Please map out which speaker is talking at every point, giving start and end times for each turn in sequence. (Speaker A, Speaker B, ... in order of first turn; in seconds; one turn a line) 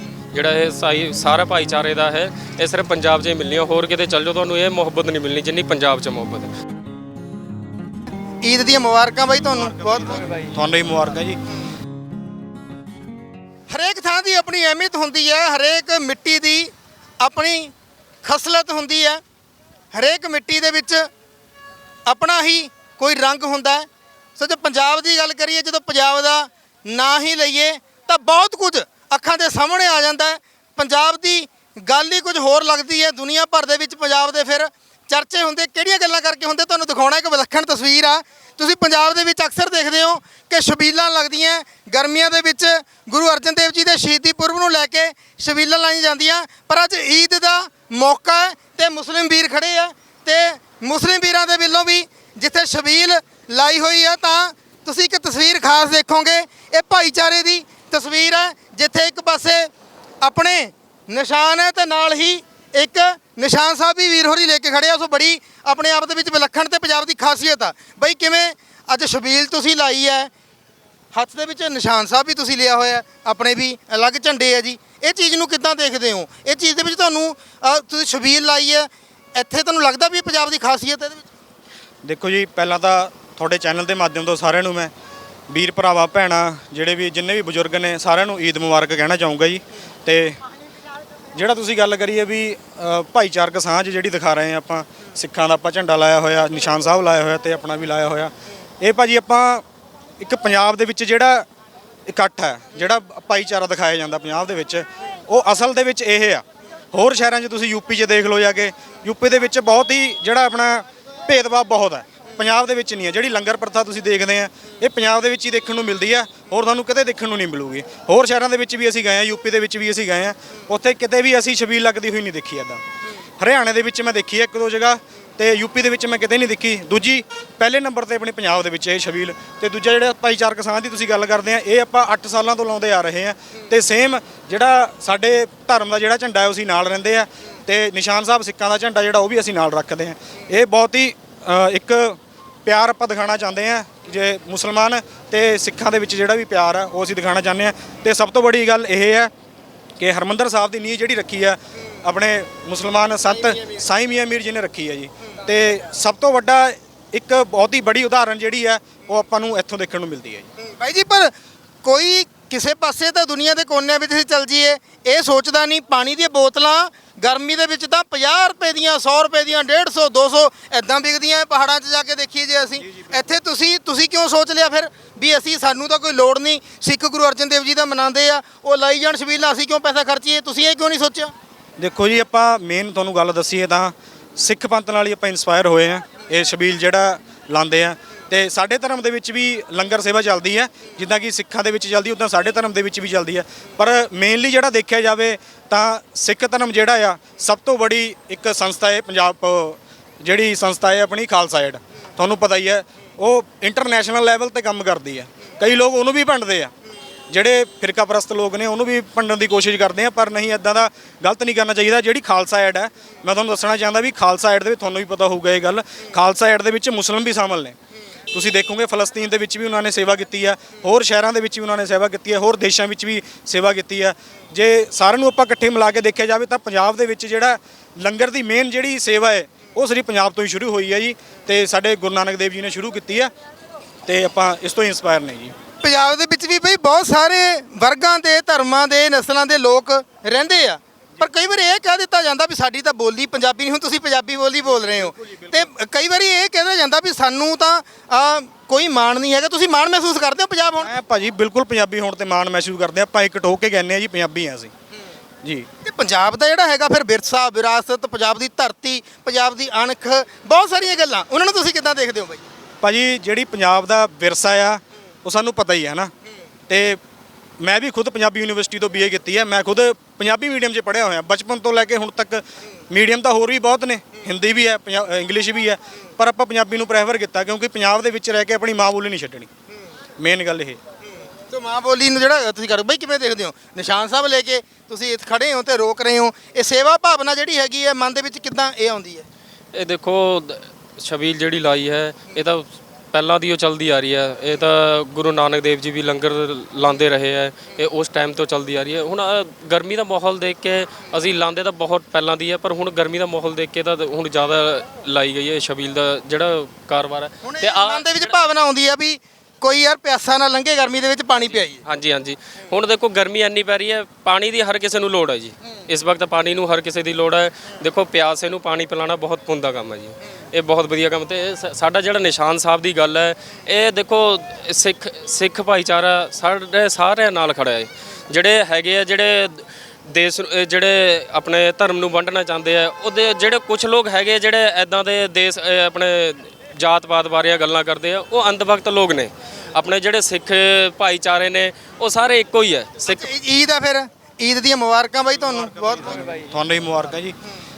Speaker A: 0.3-6.5
Speaker B: 8.4-10.3
Speaker C: 10.3-11.4
Speaker B: 13.7-19.2
Speaker B: 19.9-21.1
Speaker B: 22.1-70.3
Speaker B: 71.1-81.2
Speaker C: 82.0-84.9
Speaker C: 85.5-90.4
Speaker C: 91.3-99.6
Speaker C: 100.2-101.5
Speaker C: 102.1-122.8
Speaker C: 123.4-149.3
Speaker C: 150.0-160.5
Speaker B: 160.6-161.3
Speaker B: 161.8-181.3
Speaker C: 181.8-206.7
Speaker C: 207.3-217.7
Speaker C: 218.3-233.3
Speaker C: 234.1-235.5
Speaker B: 235.8-250.9
Speaker C: 245.0-245.5
Speaker C: 250.8-254.7
Speaker B: 255.8-262.4
Speaker C: 262.8-266.1
Speaker C: 266.7-267.0
Speaker C: 267.6-279.5
Speaker C: 280.2-280.8
Speaker B: 281.5-289.2
Speaker A: 289.7-308.3
Speaker B: 307.4-311.8
Speaker A: 311.9-343.3
Speaker B: 343.0-346.4
Speaker C: 346.1-347.4